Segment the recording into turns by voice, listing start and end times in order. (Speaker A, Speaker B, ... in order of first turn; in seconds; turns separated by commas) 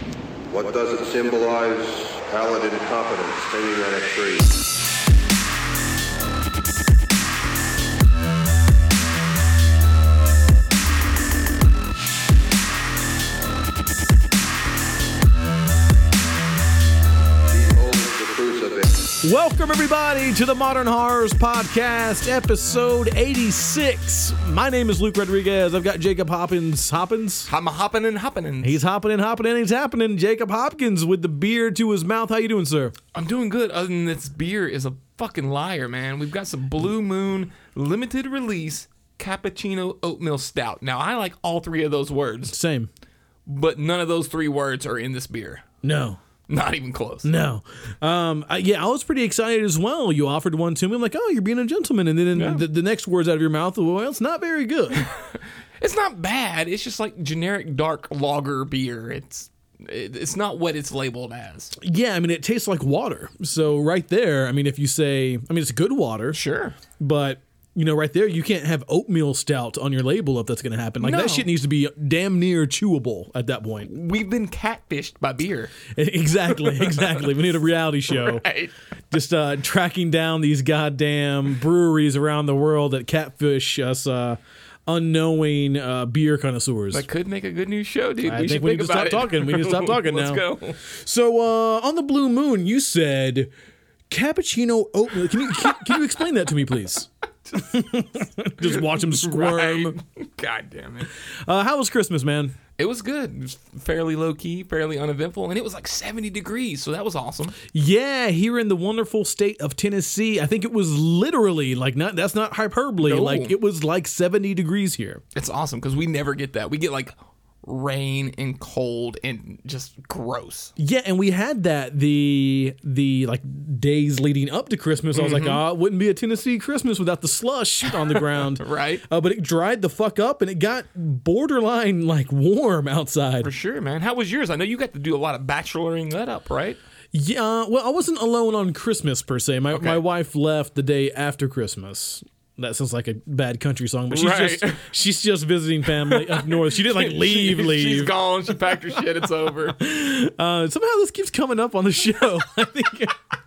Speaker A: 0.5-4.5, Speaker A: 17.5-19.1, Speaker B: 19.2-27.5, Speaker C: 27.5-28.8, Speaker B: 28.6-32.9, Speaker C: 33.1-42.6, Speaker B: 42.5-42.9, Speaker C: 43.5-45.6, Speaker B: 45.8-46.2, Speaker C: 46.5-47.3, Speaker B: 47.2-55.1, Speaker C: 52.3-52.6, Speaker C: 55.0-61.8, Speaker B: 61.8-66.4, Speaker C: 66.3-66.8, Speaker B: 67.0-73.9, Speaker C: 71.0-71.5, Speaker C: 73.8-75.7, Speaker B: 75.9-78.4, Speaker C: 78.1-78.7, Speaker B: 79.1-87.0, Speaker C: 86.9-90.8, Speaker B: 88.2-93.5, Speaker B: 94.1-100.0, Speaker C: 97.5-97.8, Speaker C: 98.6-101.1, Speaker B: 101.4-102.5, Speaker C: 102.8-107.6, Speaker B: 107.7-115.2, Speaker C: 113.0-113.5, Speaker C: 115.3-120.7, Speaker B: 120.8-133.5, Speaker C: 125.1-125.6, Speaker C: 128.1-129.0, Speaker C: 133.4-136.8, Speaker B: 137.1-148.2, Speaker C: 139.7-140.0, Speaker C: 144.1-144.8, Speaker C: 146.1-149.8, Speaker B: 149.8-153.2